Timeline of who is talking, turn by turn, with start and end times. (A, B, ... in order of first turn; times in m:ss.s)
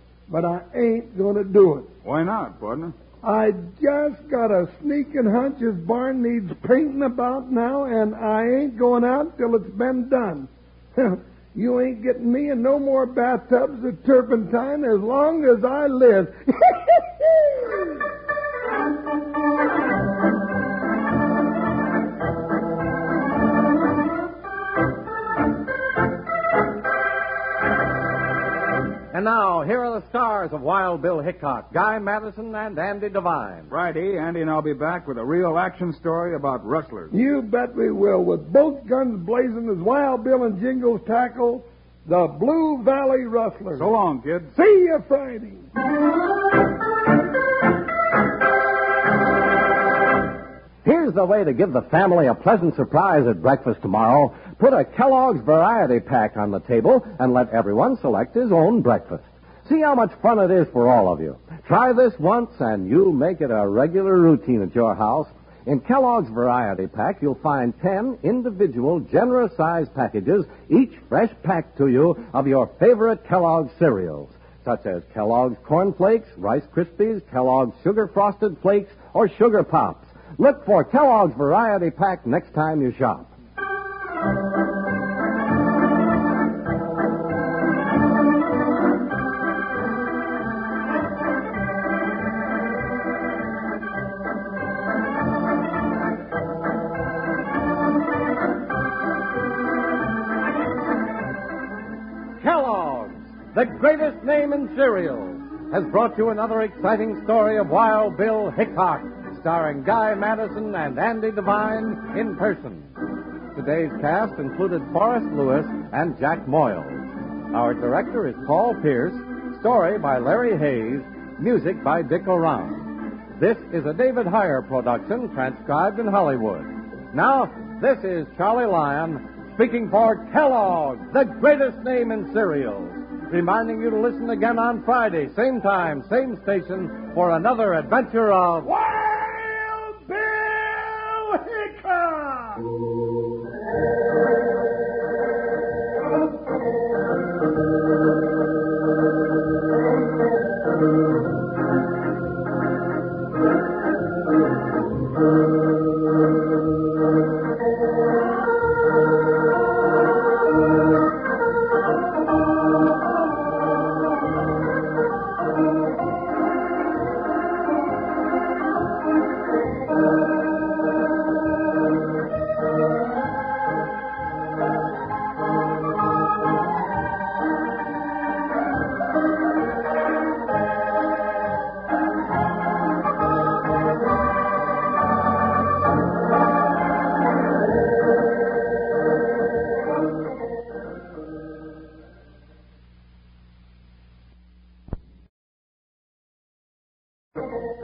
0:00.3-0:01.9 A
0:02.0-0:02.9 B
0:03.2-0:17.7 A
0:29.1-0:33.7 C
0:33.7-0:37.1 B
0:37.1-0:43.9 A
0:43.8-0:44.5 B
0:44.5-0:45.6 A
0:50.8-1:23.3 C
1:42.4-1:52.9 C
1:53.5-2:18.7 C
2:18.7-2:22.6 A